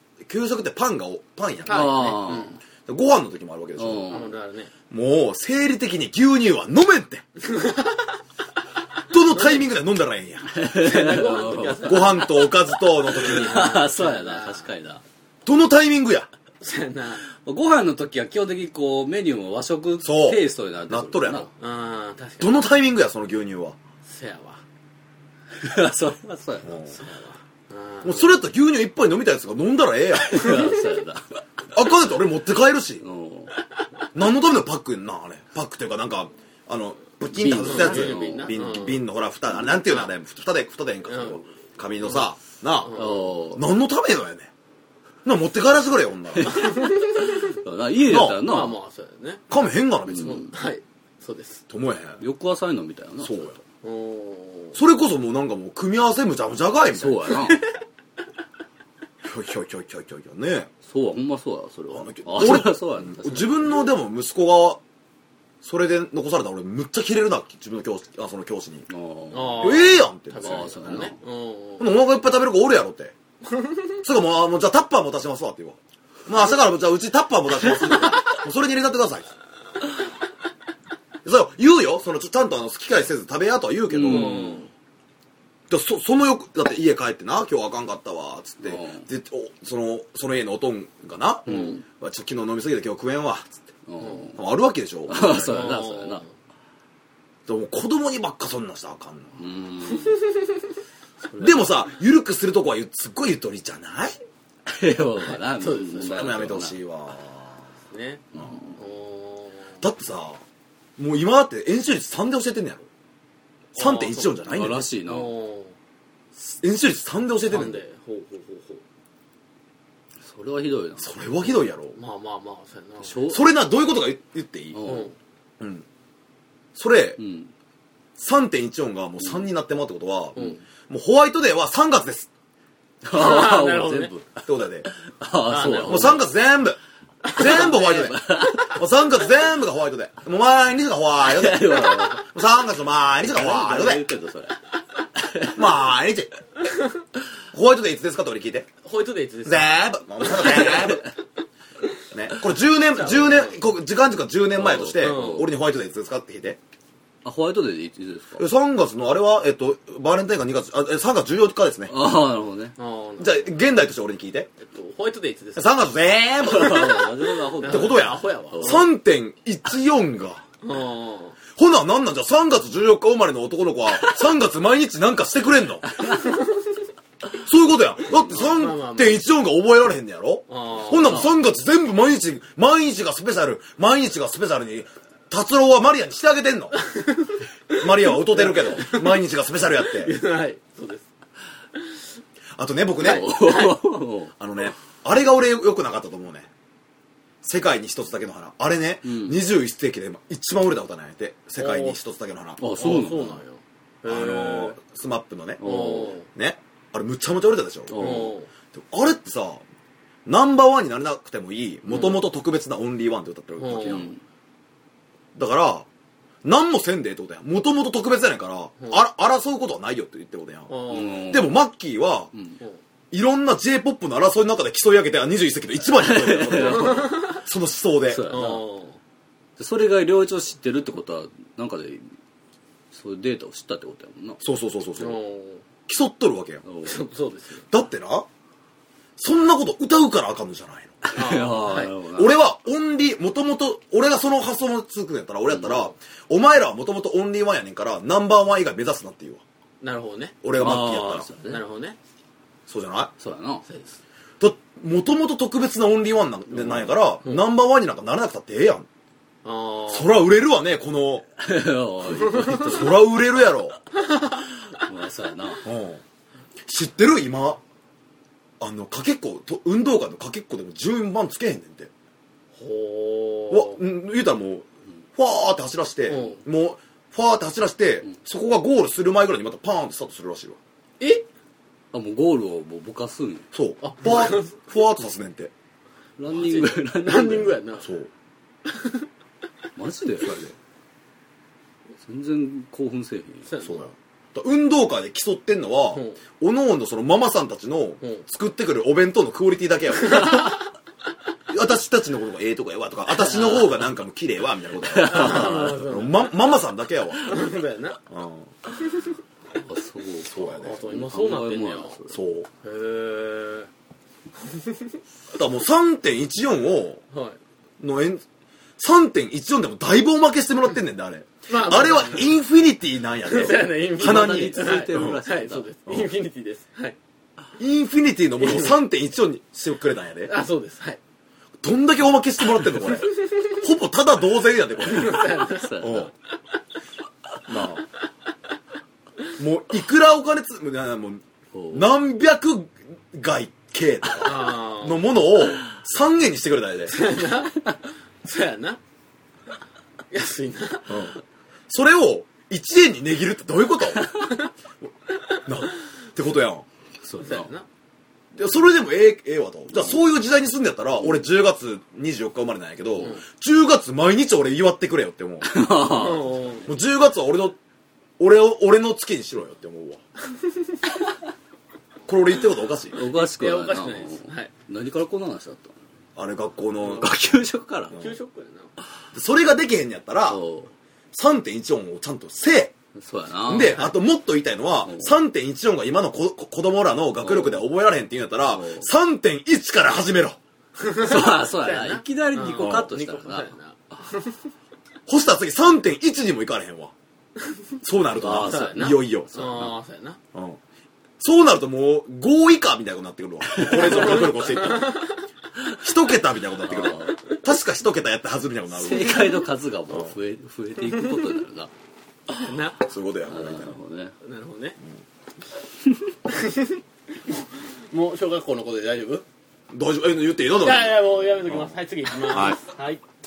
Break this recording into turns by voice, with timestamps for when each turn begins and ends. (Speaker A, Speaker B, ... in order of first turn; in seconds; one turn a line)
Speaker A: 0.2-2.1
Speaker B: 1.6-2.6
Speaker C: 1.7-2.6
Speaker A: 2.9-4.2
Speaker C: 3.8-4.3
Speaker B: 4.1-4.7
Speaker A: 4.9-7.2
Speaker B: 7.4-8.1
Speaker A: 9.1-10.6
Speaker C: 10.5-12.3
Speaker B: 10.7-12.5
Speaker A: 11.8-13.7
Speaker B: 13.0-14.7
Speaker C: 13.2-15.0
Speaker A: 15.4-16.3
Speaker B: 16.6-17.2
Speaker C: 17.4-21.5
Speaker A: 20.0-21.5
Speaker B: 21.6-22.6
Speaker A: 22.4-23.8
Speaker B: 24.0-24.6
Speaker C: 25.6-26.8
Speaker A: 26.6-26.9
Speaker B: 26.9-28.4
Speaker A: 28.0-30.7
Speaker C: 30.2-31.4
Speaker A: 31.7-33.0
Speaker C: 33.0-33.5
Speaker A: 34.1-44.5
Speaker C: 37.3-38.5
Speaker B: 37.5-39.0
Speaker B: 41.1-41.5
Speaker B: 42.8-43.2
Speaker C: 42.9-43.6
Speaker A: 45.2-46.7
Speaker C: 46.4-48.8
Speaker B: 46.5-47.6
Speaker A: 48.1-48.4
Speaker B: 48.3-49.4
Speaker A: 49.5-50.4
Speaker C: 50.1-50.5
Speaker B: 50.2-51.6
Speaker A: 51.7-52.2
Speaker C: 52.2-53.5
Speaker A: 53.2-53.6
Speaker B: 53.8-54.8
Speaker A: 54.7-57.3
Speaker C: 56.9-57.6
Speaker B: 57.4-57.7
Speaker A: 59.2-60.7
Speaker C: 60.8-63.7
Speaker A: 61.9-64.8
Speaker A: 65.6-68.9
Speaker C: 68.9-69.8
Speaker B: 69.3-71.9
Speaker A: 69.6-71.1
Speaker C: 70.4-71.2
Speaker A: 71.8-73.1
Speaker A: 74.0-79.3
Speaker A: 81.2-84.5
Speaker C: 83.9-84.6
Speaker B: 84.0-84.7
Speaker A: 85.7-93.6
Speaker C: 88.6-89.0
Speaker B: 91.5-91.8
Speaker C: 91.5-91.8
Speaker C: 93.9-94.4
Speaker B: 94.0-94.3
Speaker A: 94.3-95.6
Speaker C: 95.1-96.2
Speaker B: 95.3-96.3
Speaker A: 97.5-99.3
Speaker C: 99.4-100.2
Speaker B: 99.9-100.5
Speaker C: 101.2-101.7
Speaker A: 101.4-104.1
Speaker C: 104.7-106.8
Speaker B: 105.2-106.3
Speaker A: 106.0-107.6
Speaker B: 107.9-109.8
Speaker A: 109.8-110.4
Speaker A: 111.0-112.9
Speaker A: 113.7-114.9
Speaker B: 113.8-114.4
Speaker C: 114.5-115.3
Speaker B: 115.0-115.7
Speaker A: 116.3-117.8
Speaker B: 117.5-118.8
Speaker C: 120.2-121.1
Speaker A: 121.0-122.0
Speaker B: 121.9-123.2
Speaker C: 123.0-123.4
Speaker A: 123.3-124.8
Speaker C: 124.7-125.1
Speaker B: 124.8-125.1
Speaker A: 125.6-125.8
Speaker A: 126.7-127.2
Speaker C: 127.2-127.5
Speaker A: 128.2-130.4
Speaker B: 130.3-130.6
Speaker A: 130.9-132.3
Speaker C: 133.0-136.2
Speaker B: 133.1-134.1
Speaker A: 134.4-134.9
Speaker B: 135.5-136.2
Speaker A: 135.8-136.8
Speaker B: 137.2-138.1
Speaker A: 137.3-144.0
Speaker C: 137.4-138.8
Speaker C: 141.2-142.3
Speaker C: 143.2-144.6
Speaker C: 145.2-145.6
Speaker A: 145.5-146.3
Speaker A: 147.5-148.7
Speaker B: 148.8-151.0
Speaker A: 149.4-151.0
Speaker A: 152.1-156.6
Speaker B: 152.9-153.6
Speaker C: 154.6-155.4
Speaker B: 155.0-155.4
Speaker C: 157.2-158.4
Speaker A: 158.4-161.9
Speaker C: 161.9-162.7
Speaker B: 162.8-163.5
Speaker A: 163.2-164.5
Speaker B: 164.6-165.8
Speaker A: 165.6-167.0
Speaker C: 166.4-168.8
Speaker B: 166.5-168.9
Speaker A: 167.6-170.4
Speaker B: 170.6-171.4
Speaker A: 171.5-175.9
Speaker A: 177.4-186.8
Speaker B: 178.3-179.2
Speaker B: 180.5-181.3
Speaker B: 186.8-189.2
Speaker A: 187.7-190.2
Speaker B: 189.8-191.1
Speaker A: 192.6-193.3
Speaker C: 193.0-194.3
Speaker B: 193.0-193.8
Speaker A: 194.4-196.5
Speaker A: 197.4-202.6
Speaker C: 199.0-199.4
Speaker B: 201.6-202.0
Speaker C: 202.6-203.4
Speaker B: 202.8-204.8
Speaker A: 204.0-209.6
Speaker C: 205.6-206.2
Speaker B: 205.6-206.3
Speaker C: 207.9-208.3
Speaker B: 208.0-208.5
Speaker A: 210.2-214.1
Speaker B: 211.9-212.2
Speaker B: 213.6-214.1
Speaker C: 213.8-214.2
Speaker A: 215.3-215.8
Speaker A: 216.4-222.3
Speaker B: 220.7-221.4
Speaker C: 220.9-221.5
Speaker A: 223.1-228.3
Speaker C: 226.0-227.3
Speaker B: 226.8-227.3
Speaker C: 228.1-228.6
Speaker B: 228.3-229.0
Speaker C: 229.6-232.1
Speaker C: 232.9-234.4
Speaker A: 234.4-235.2
Speaker B: 235.0-235.6
Speaker A: 235.9-236.6
Speaker C: 236.6-237.0
Speaker B: 236.8-237.7
Speaker A: 237.7-238.3
Speaker A: 239.2-241.0
Speaker C: 241.1-242.3
Speaker B: 241.1-241.9
Speaker A: 242.1-249.4
Speaker B: 249.8-250.3
Speaker A: 250.4-251.3
Speaker C: 250.5-251.6
Speaker B: 251.4-252.0
Speaker A: 252.7-253.1
Speaker C: 253.2-253.6
Speaker B: 253.7-254.0
Speaker A: 254.4-258.9
Speaker C: 256.5-256.9
Speaker B: 259.4-260.1
Speaker A: 259.9-261.3
Speaker C: 261.4-262.9
Speaker B: 262.2-262.6
Speaker A: 262.6-263.8
Speaker C: 264.7-265.6
Speaker A: 265.6-266.0
Speaker A: 266.6-267.6
Speaker A: 268.6-271.9
Speaker B: 272.6-273.8
Speaker A: 273.5-280.6
Speaker B: 276.1-276.4
Speaker B: 281.0-281.2
Speaker C: 281.9-283.5
Speaker A: 283.5-285.5
Speaker B: 283.8-284.6
Speaker C: 286.2-287.6
Speaker B: 286.3-287.9
Speaker A: 287.8-288.1
Speaker B: 288.7-289.0
Speaker C: 289.8-290.5
Speaker C: 292.0-293.5
Speaker B: 293.4-293.9
Speaker A: 293.6-300.5
Speaker B: 295.9-296.2
Speaker B: 300.1-300.5
Speaker A: 301.5-307.4
Speaker C: 304.9-305.6
Speaker B: 305.0-306.3
Speaker B: 307.2-308.0
Speaker A: 308.1-308.5
Speaker C: 309.6-312.2
Speaker A: 310.3-310.8
Speaker B: 310.6-312.0
Speaker A: 312.1-312.5
Speaker B: 312.6-313.7
Speaker B: 314.5-314.8
Speaker A: 315.3-317.0
Speaker B: 317.1-317.4
Speaker A: 317.8-318.2
Speaker A: 318.8-325.2
Speaker B: 321.5-322.4
Speaker B: 323.2-327.0
Speaker C: 323.9-325.7
Speaker A: 327.6-330.3
Speaker B: 328.4-328.7
Speaker B: 330.2-331.0
Speaker A: 331.6-336.1
Speaker B: 334.8-336.0
Speaker C: 335.5-336.1
Speaker A: 337.4-337.9
Speaker A: 339.4-347.0
Speaker C: 341.5-341.9
Speaker B: 344.2-345.1
Speaker B: 346.9-348.8
Speaker B: 350.1-351.2
Speaker A: 350.9-351.1
Speaker A: 351.7-354.1
Speaker A: 355.4-356.6
Speaker C: 357.0-357.5
Speaker B: 357.2-357.6
Speaker A: 358.3-365.5
Speaker C: 365.4-366.3
Speaker B: 365.8-366.7
Speaker A: 366.6-367.6
Speaker A: 368.2-370.0
Speaker A: 372.1-373.0
Speaker C: 372.9-375.7
Speaker B: 373.1-374.5
Speaker A: 376.1-377.1
Speaker C: 376.9-378.0
Speaker B: 377.9-378.7
Speaker A: 379.1-380.4
Speaker C: 380.3-380.7
Speaker A: 381.1-382.7
Speaker C: 382.9-383.9
Speaker A: 383.5-390.4
Speaker C: 384.9-385.1
Speaker C: 387.2-387.6
Speaker C: 388.5-388.9
Speaker B: 390.8-394.4
Speaker C: 391.0-393.5
Speaker A: 392.5-392.9
Speaker A: 395.1-396.9
Speaker A: 397.8-399.4
Speaker C: 398.2-399.7
Speaker B: 398.2-400.2
Speaker A: 400.3-400.6
Speaker A: 401.2-405.0
Speaker C: 403.5-404.3
Speaker B: 403.7-405.2
Speaker A: 405.8-410.1
Speaker C: 406.7-407.2
Speaker C: 408.7-411.7
Speaker B: 412.3-412.8
Speaker A: 412.8-413.8
Speaker C: 413.3-414.1
Speaker B: 414.2-414.8
Speaker B: 416.3-416.8
Speaker B: 417.9-419.2
Speaker A: 419.7-422.6
Speaker B: 420.6-423.0